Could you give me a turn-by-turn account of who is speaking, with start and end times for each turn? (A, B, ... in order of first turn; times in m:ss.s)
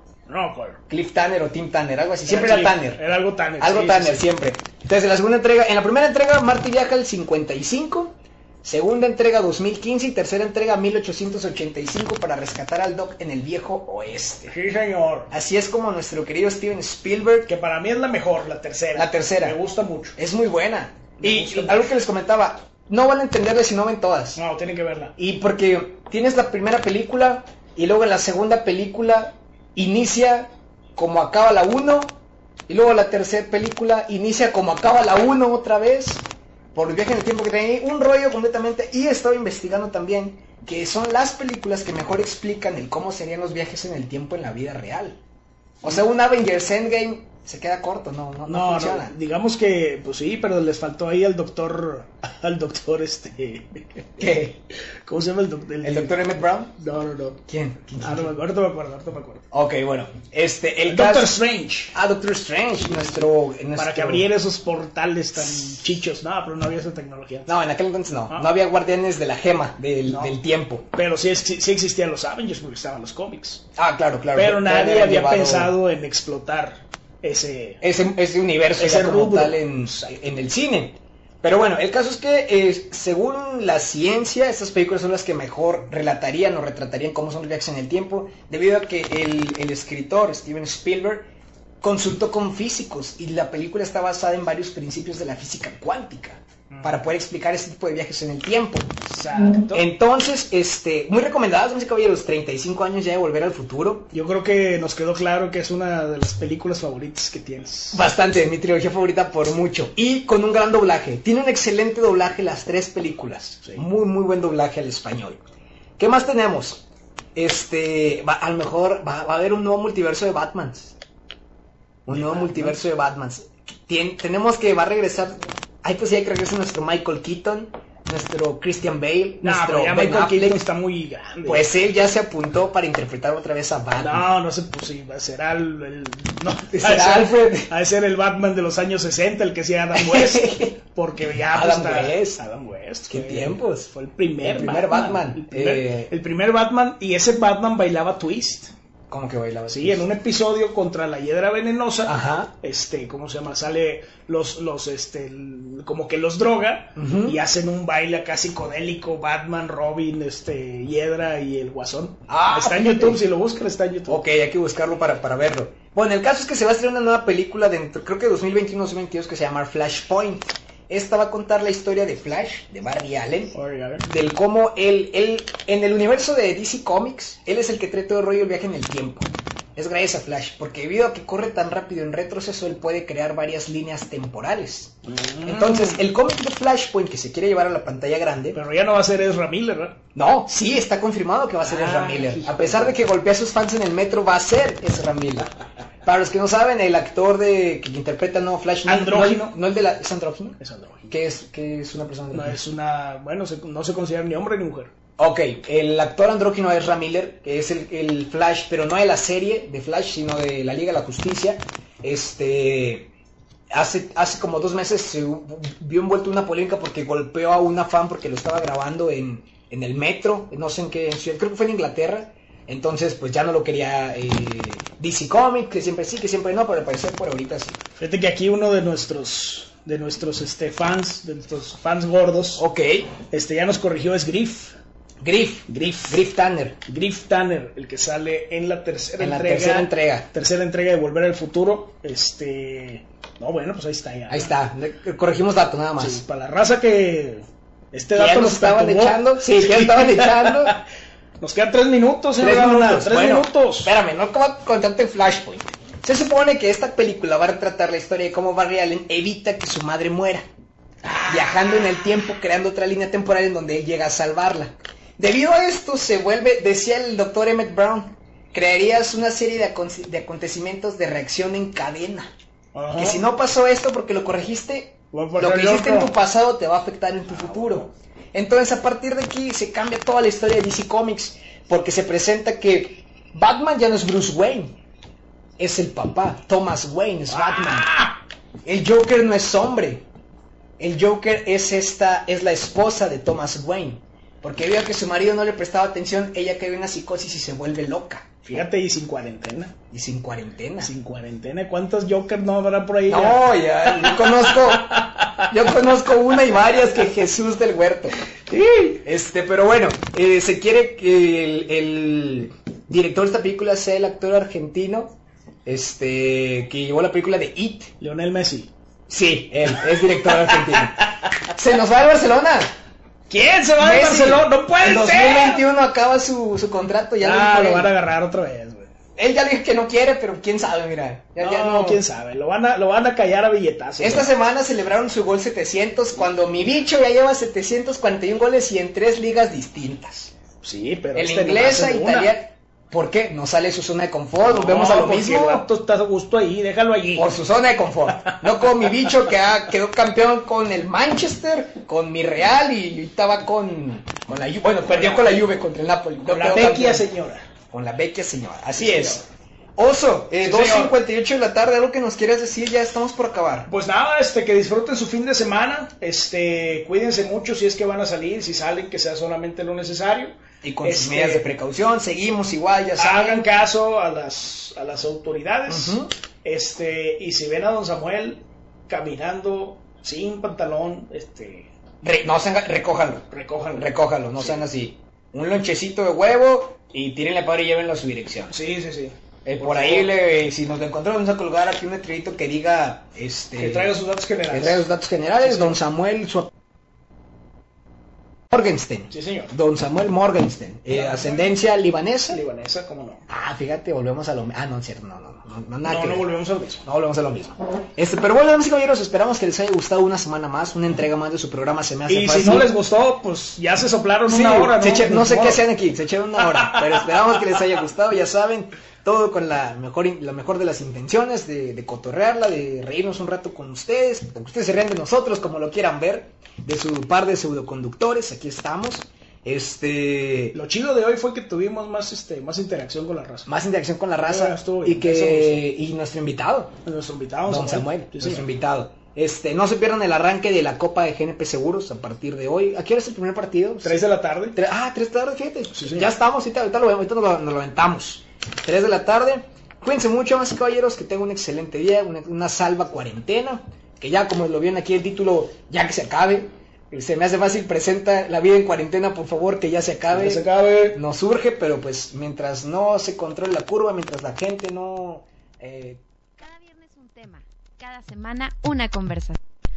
0:00.3-0:00.8 A
0:00.9-0:03.0 B
0:02.3-0:04.2 A
0:03.6-0:14.5 B
0:14.5-0:15.3 A
0:15.3-0:17.5 B
0:17.5-0:20.2 A
0:19.0-0:19.6 B
0:20.2-0:24.4 B
0:21.2-0:21.9 A
0:24.4-0:25.1 A
0:25.2-0:32.2 B
0:32.7-0:36.2 B
0:36.8-0:45.2 B
0:45.8-0:49.1 B
0:48.5-0:54.1 A
0:54.2-0:54.6 B
0:55.1-0:56.2 A
0:55.8-0:56.8 B
0:56.8-0:57.4 A
0:57.5-0:58.3 B
0:58.0-0:59.5 A
0:59.5-1:01.4 B
1:00.9-1:01.9 A
1:01.9-1:04.3 B
1:03.8-1:07.5 A
1:07.5-1:10.9 B
1:10.1-1:10.4 A
1:10.9-1:13.6 A
1:13.8-1:15.7 B
1:14.4-1:17.8 A
1:17.8-1:31.3 B
1:18.8-1:20.1 A
1:31.8-1:38.9 B
1:36.7-1:37.1 A
1:39.0-1:39.8 A
1:39.6-1:44.1 B
1:44.1-1:48.0 A
1:47.9-1:55.4 B
1:56.0-1:56.8 B
1:57.4-2:01.0 B
2:02.1-2:10.6 B
2:02.1-2:02.8 A
2:09.4-2:11.7 A
2:11.4-2:14.3 B
2:14.0-2:28.7 A
2:16.7-2:17.7 B
2:20.0-2:20.8 B
2:21.5-2:22.4 B
2:23.1-2:23.9 B
2:24.4-2:26.1 B
2:29.1-2:30.0 B
2:29.7-2:44.2 A
2:32.0-2:32.5 B
2:37.0-2:37.4 B
2:42.3-2:43.2 B
2:44.1-3:08.6 B
2:53.6-2:54.1 A
3:05.1-3:06.0 A
3:08.5-3:10.0 A
3:10.2-3:15.5 B
3:11.6-3:12.9 A
3:16.0-3:22.6 B
3:18.9-3:19.6 A
3:20.6-3:21.1 A
3:22.3-3:24.9 A
3:25.2-3:33.1 B
3:33.7-3:47.8 B
3:48.0-3:52.6 A
3:52.6-3:53.1 B
3:53.3-3:54.8 A
3:55.2-3:56.8 B
3:55.7-3:56.2 A
3:56.9-4:04.6 A
3:59.2-4:00.3 B
4:04.3-4:06.2 B
4:06.0-4:10.8 A
4:08.2-4:10.8 B
4:11.4-4:13.9 A
4:12.4-4:20.5 B
4:21.0-4:22.2 A
4:21.3-4:32.3 B
4:32.7-4:33.2 A
4:33.0-4:44.8 B
4:35.1-4:36.2 A
4:37.3-4:37.8 A
4:45.6-4:47.9 B
4:47.3-4:48.2 A
4:48.6-4:50.0 B
4:50.8-4:58.4 B
4:58.4-4:59.8 A
4:59.9-5:00.9 B
5:00.8-5:05.7 A
5:03.1-5:08.2 B
5:08.5-5:09.0 A
5:09.0-5:17.9 B
5:18.0-5:18.7 A
5:19.1-5:22.7 B
5:19.8-5:21.4 A
5:23.3-5:25.6 A
5:23.8-5:27.9 B
5:27.2-5:28.9 A
5:29.2-5:32.0 B
5:31.4-5:34.3 A
5:34.0-5:40.4 B
5:40.6-5:42.3 A
5:41.2-5:45.7 B
5:44.4-5:47.3 A
5:47.2-5:57.1 B
5:48.2-5:49.1 A
5:54.9-5:55.4 A
5:56.3-5:57.5 A
5:57.7-5:59.2 B
5:58.8-5:59.2 A
5:59.8-6:03.7 B
6:00.4-6:01.0 A
6:03.7-6:11.5 A
6:10.6-6:13.4 B
6:13.0-6:21.7 A
6:15.7-6:16.1 B
6:22.0-6:28.6 B
6:23.3-6:24.6 A
6:28.5-6:30.1 A
6:29.4-6:34.0 B
6:33.6-6:34.8 A
6:34.5-6:36.5 B
6:35.4-6:35.8 A
6:38.5-6:42.4 B
6:39.1-6:39.5 A
6:40.9-6:41.5 A
6:42.3-6:43.2 A
6:43.3-6:46.3 B
6:45.8-6:46.8 A
6:46.8-6:52.7 B
6:52.1-6:55.6 A
6:54.2-7:10.6 B
6:56.4-6:57.1 A
7:10.5-7:13.5 A
7:13.5-7:16.7 B
7:14.2-7:15.6 A
7:16.8-7:18.4 A
7:17.5-7:24.0 B
7:23.8-7:24.6 A
7:24.5-7:46.0 B
7:25.8-7:26.1 A
7:40.1-7:41.0 A
7:46.4-7:49.4 C